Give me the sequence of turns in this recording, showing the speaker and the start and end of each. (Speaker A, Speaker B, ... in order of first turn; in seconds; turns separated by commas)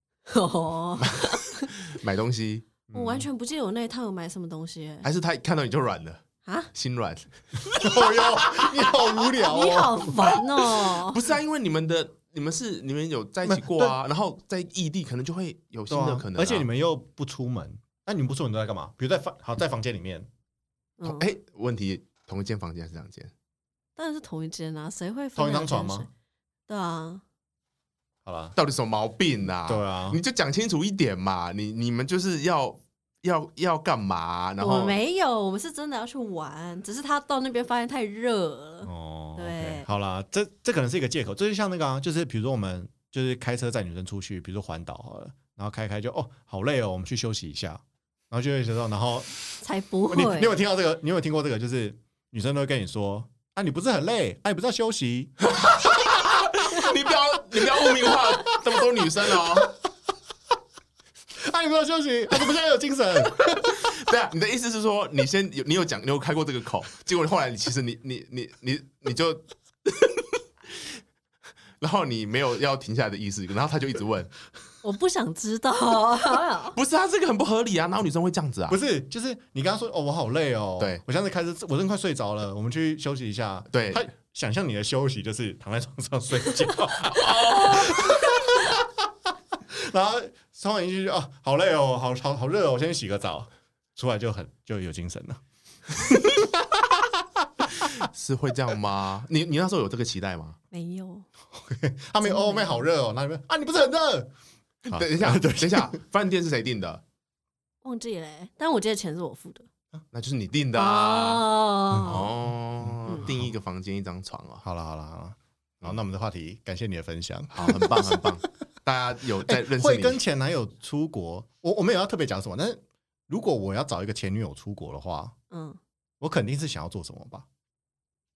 Speaker A: 0.3-1.8, Speaker B: 1.0-2.7, Speaker C: 2.9-3.3, Speaker A: 2.9-5.1, Speaker B: 5.0-8.9, Speaker A: 6.4-6.7, Speaker C: 7.7-10.3, Speaker A: 9.4-11.2, Speaker B: 10.7-16.7, Speaker C: 13.4-13.9, Speaker C: 15.9-20.3, Speaker A: 21.0-21.2, Speaker B: 21.0-23.3, Speaker A: 23.9-26.1, Speaker C: 25.4-26.1, Speaker A: 26.7-27.2, Speaker C: 28.2-28.6, Speaker B: 28.6-35.0, Speaker C: 29.7-30.2, Speaker A: 34.6-39.9, Speaker C: 38.8-49.6, Speaker A: 49.6-50.5, Speaker C: 50.1-55.3, Speaker B: 55.6-59.7, Speaker C: 61.4-63.8, Speaker B: 63.6-71.0, Speaker B: 71.8-74.3, Speaker A: 74.8-76.8, Speaker B: 76.7-78.8, Speaker C: 78.7-88.8, Speaker B: 83.7-84.0, Speaker B: 87.1-88.1, Speaker C: 89.7-95.4, Speaker C: 95.9-97.2, Speaker C: 97.8-98.0, Speaker B: 98.0-100.6, Speaker A: 100.7-101.3, Speaker C: 101.5-104.3, Speaker A: 102.2-102.8, Speaker C: 104.8-106.0, Speaker B: 104.9-107.0, Speaker A: 107.8-109.7, Speaker B: 110.1-111.5, Speaker A: 110.7-112.3, Speaker C: 111.9-112.2, Speaker B: 112.0-114.6, Speaker C: 112.8-113.4, Speaker C: 114.6-118.5, Speaker B: 117.5-120.2, Speaker C: 119.4-125.3, Speaker A: 125.5-125.8, Speaker C: 126.2-127.5